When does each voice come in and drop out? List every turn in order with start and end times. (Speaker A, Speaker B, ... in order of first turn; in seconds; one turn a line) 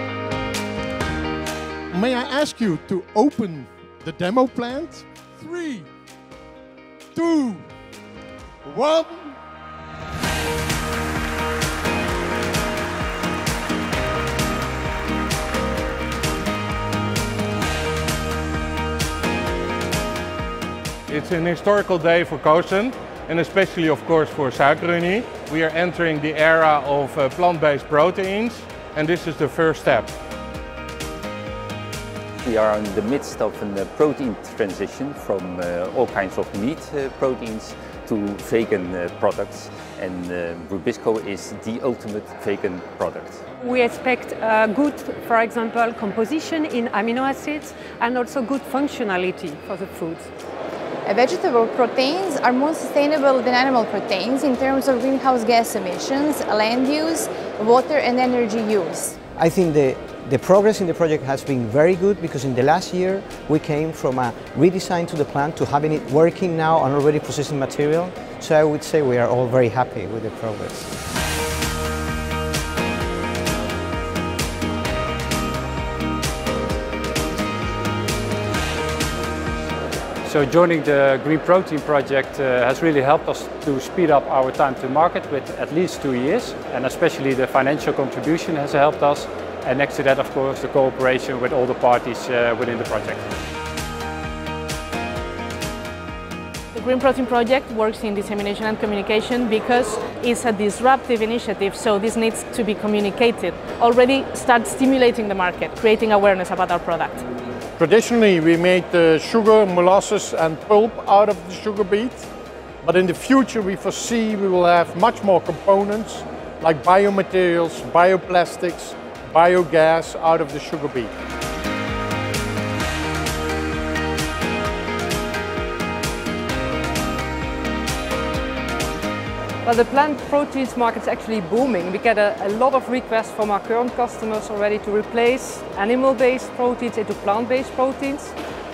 Speaker A: 1.9-5.9
Speaker A: 7.1-7.6
Speaker A: 8.6-9.3
Speaker B: 21.1-30.1
Speaker C: 32.4-43.4
Speaker D: 43.6-50.3
Speaker E: 51.0-59.2
Speaker F: 59.4-70.9
Speaker G: 80.2-93.2
Speaker H: 96.7-107.2
Speaker A: 107.8-112.3
Speaker A: 112.8-121.1
Speaker I: 129.6-138.3